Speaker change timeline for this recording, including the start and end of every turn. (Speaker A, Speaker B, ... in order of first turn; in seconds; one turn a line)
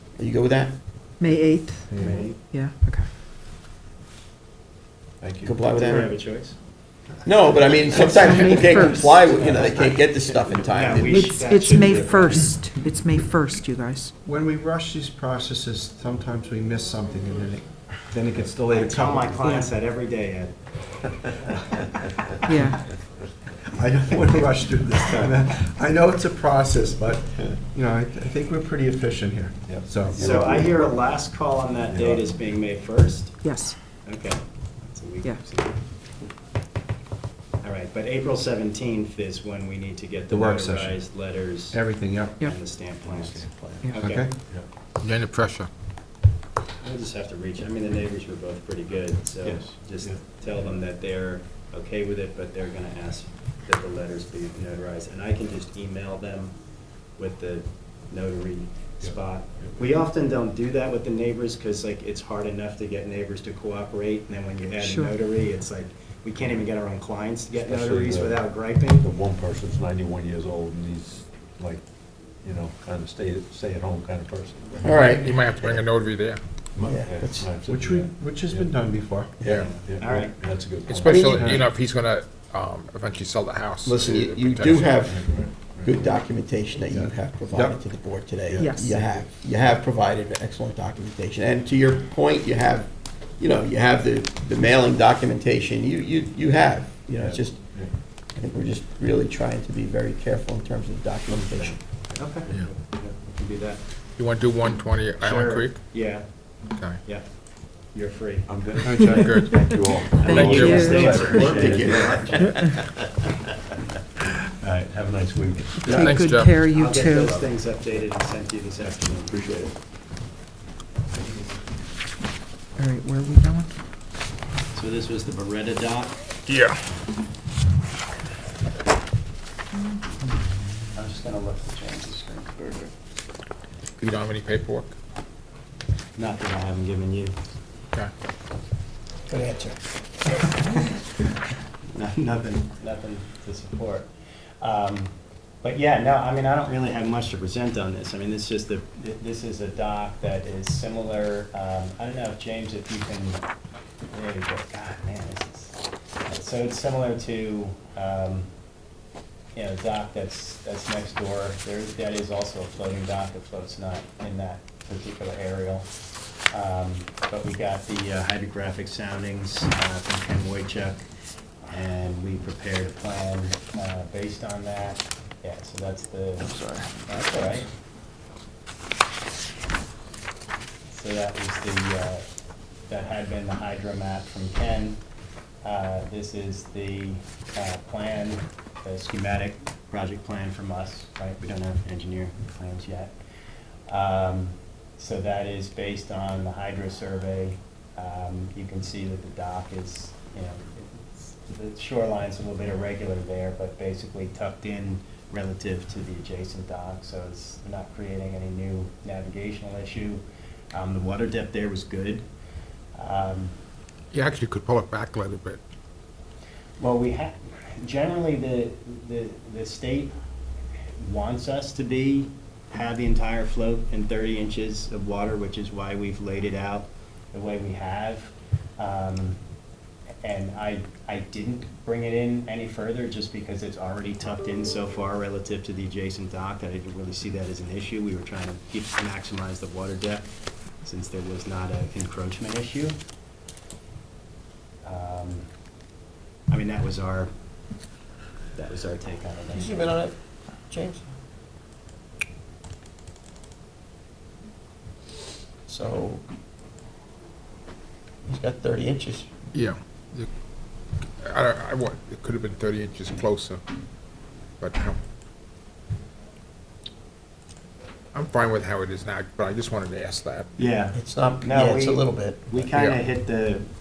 Speaker A: 0.1-0.7
Speaker B: 1.2-3.1
Speaker C: 1.9-2.4
Speaker D: 2.0-2.3
Speaker C: 5.2-5.6
Speaker A: 5.4-6.2
Speaker D: 5.7-6.6
Speaker A: 7.2-11.3
Speaker B: 8.1-9.9
Speaker D: 9.4-12.5
Speaker B: 11.0-14.1
Speaker E: 14.2-19.6
Speaker D: 18.7-20.6
Speaker B: 19.4-19.7
Speaker B: 22.4-22.8
Speaker E: 23.7-30.6
Speaker C: 29.6-30.9
Speaker D: 30.1-33.5
Speaker C: 31.9-32.3
Speaker B: 33.4-33.8
Speaker D: 34.0-35.8
Speaker D: 37.6-44.3
Speaker E: 40.3-41.0
Speaker E: 41.7-44.4
Speaker C: 43.0-43.9
Speaker F: 45.0-45.7
Speaker D: 46.8-56.6
Speaker C: 49.4-50.2
Speaker D: 57.2-69.1
Speaker B: 64.8-65.1
Speaker C: 67.5-74.9
Speaker A: 74.8-75.4
Speaker F: 74.8-76.4
Speaker C: 76.8-78.7
Speaker A: 76.8-77.5
Speaker E: 77.6-79.5
Speaker C: 79.4-81.7
Speaker D: 79.5-80.4
Speaker F: 80.9-85.0
Speaker A: 81.0-81.5
Speaker E: 81.3-81.6
Speaker A: 83.8-101.8
Speaker C: 84.5-86.2
Speaker E: 86.9-87.8
Speaker C: 88.4-89.3
Speaker B: 88.6-88.9
Speaker C: 97.2-97.9
Speaker C: 101.3-102.7
Speaker D: 102.1-103.8
Speaker F: 104.2-105.9
Speaker D: 105.2-106.3
Speaker F: 106.7-107.0
Speaker D: 107.0-107.3
Speaker D: 107.9-109.2
Speaker C: 108.5-112.4
Speaker E: 108.8-109.5
Speaker F: 108.9-111.5
Speaker D: 110.2-112.5
Speaker B: 110.3-111.6
Speaker A: 111.5-112.7
Speaker C: 114.6-115.9
Speaker B: 115.8-117.3
Speaker D: 115.8-119.3
Speaker F: 115.9-116.6
Speaker C: 119.3-119.7
Speaker B: 122.8-123.7
Speaker D: 124.7-126.2
Speaker F: 126.5-126.8
Speaker D: 130.9-132.9
Speaker F: 134.0-134.9
Speaker D: 136.2-137.3
Speaker A: 139.3-139.8
Speaker D: 141.9-144.1
Speaker D: 144.6-153.4
Speaker D: 154.1-158.5
Speaker D: 159.6-165.9
Speaker D: 166.5-171.1
Speaker D: 171.6-177.7
Speaker A: 176.4-177.0
Speaker D: 180.9-182.2
Speaker D: 182.9-185.0
Speaker D: 185.6-193.1
Speaker D: 193.9-212.2
Speaker D: 212.9-213.5
Speaker F: 214.1-215.6
Speaker D: 216.8-220.1
Speaker D: 221.0-229.4
Speaker D: 230.2-240.3
Speaker D: 240.8-243.0
Speaker D: 244.8-245.5
Speaker D: 246.5-247.3
Speaker D: 248.6-250.0
Speaker A: 249.5-250.2
Speaker A: 250.7-251.0
Speaker A: 255.7-256.2
Speaker A: 258.2-259.3
Speaker F: 259.5-260.3
Speaker F: 261.2-263.6
Speaker F: 264.6-265.0
Speaker F: 268.1-270.5
Speaker D: 270.6-273.6
Speaker A: 270.9-272.7